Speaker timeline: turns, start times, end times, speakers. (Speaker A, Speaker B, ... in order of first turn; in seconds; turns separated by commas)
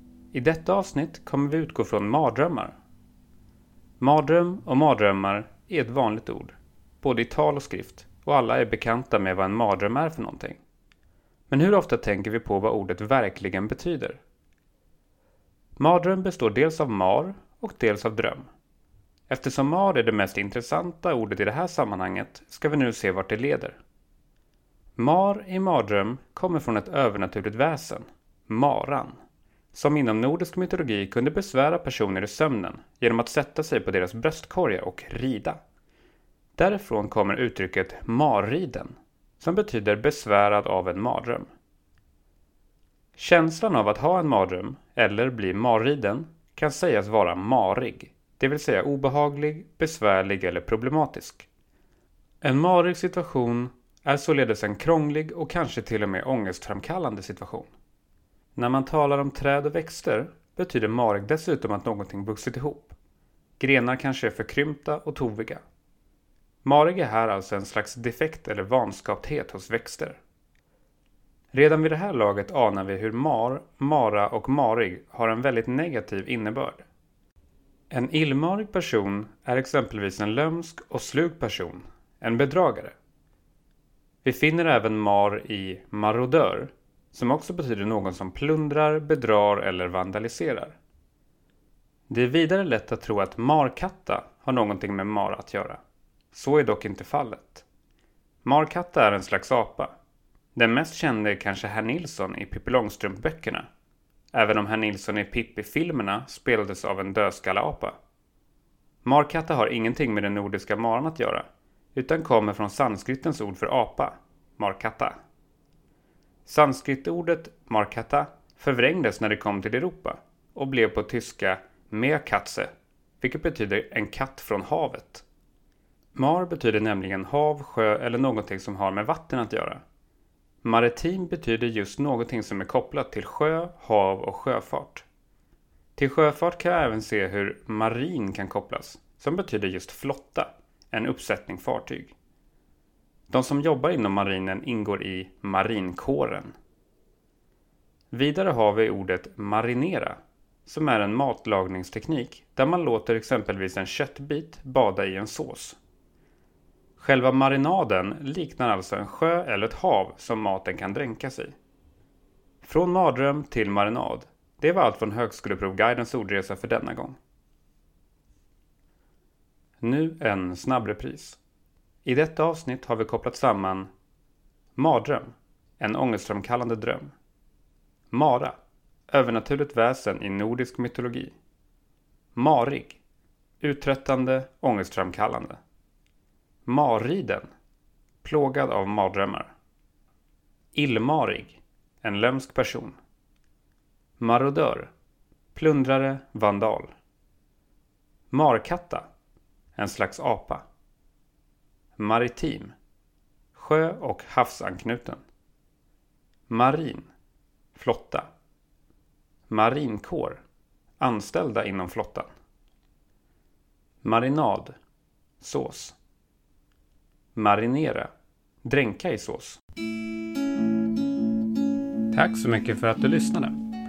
Speaker A: 0.3-2.8, Speaker A: 4.0-10.6, Speaker A: 11.5-14.2, Speaker A: 15.8-18.5, Speaker A: 19.3-23.8, Speaker A: 25.0-29.2, Speaker A: 29.7-35.6, Speaker A: 36.6-41.5, Speaker A: 43.2-51.5, Speaker A: 52.4-57.7, Speaker A: 58.6-63.0, Speaker A: 63.6-65.6, Speaker A: 66.6-70.2, Speaker A: 71.5-76.9, Speaker A: 77.9-83.0, Speaker A: 84.2-90.8, Speaker A: 92.1-95.8, Speaker A: 96.3-97.7, Speaker A: 98.4-99.9, Speaker A: 100.5-103.7, Speaker A: 104.3-108.0, Speaker A: 109.0-115.2, Speaker A: 116.5-125.2, Speaker A: 126.2-129.8, Speaker A: 130.6-135.1, Speaker A: 136.0-142.2, Speaker A: 143.3-146.6, Speaker A: 148.1-155.8, Speaker A: 157.0-161.6, Speaker A: 162.6-167.2, Speaker A: 169.8-171.4, Speaker A: 172.0-173.9, Speaker A: 174.8-177.2, Speaker A: 178.1-178.6, Speaker A: 179.1-181.3, Speaker A: 182.3-183.0, Speaker A: 183.6-185.6, Speaker A: 186.7-187.5, Speaker A: 188.2-189.5, Speaker A: 190.7-193.0, Speaker A: 194.2-194.9, Speaker A: 195.5-197.0, Speaker A: 198.3-199.1, Speaker A: 199.8-200.6, Speaker A: 202.0-202.7, Speaker A: 203.6-205.2, Speaker A: 206.5-207.1, Speaker A: 207.7-208.3, Speaker A: 209.5-210.4, Speaker A: 211.0-212.3, Speaker A: 214.0-214.8, Speaker A: 215.4-216.0, Speaker A: 217.3-218.1, Speaker A: 218.6-219.6, Speaker A: 222.1-223.6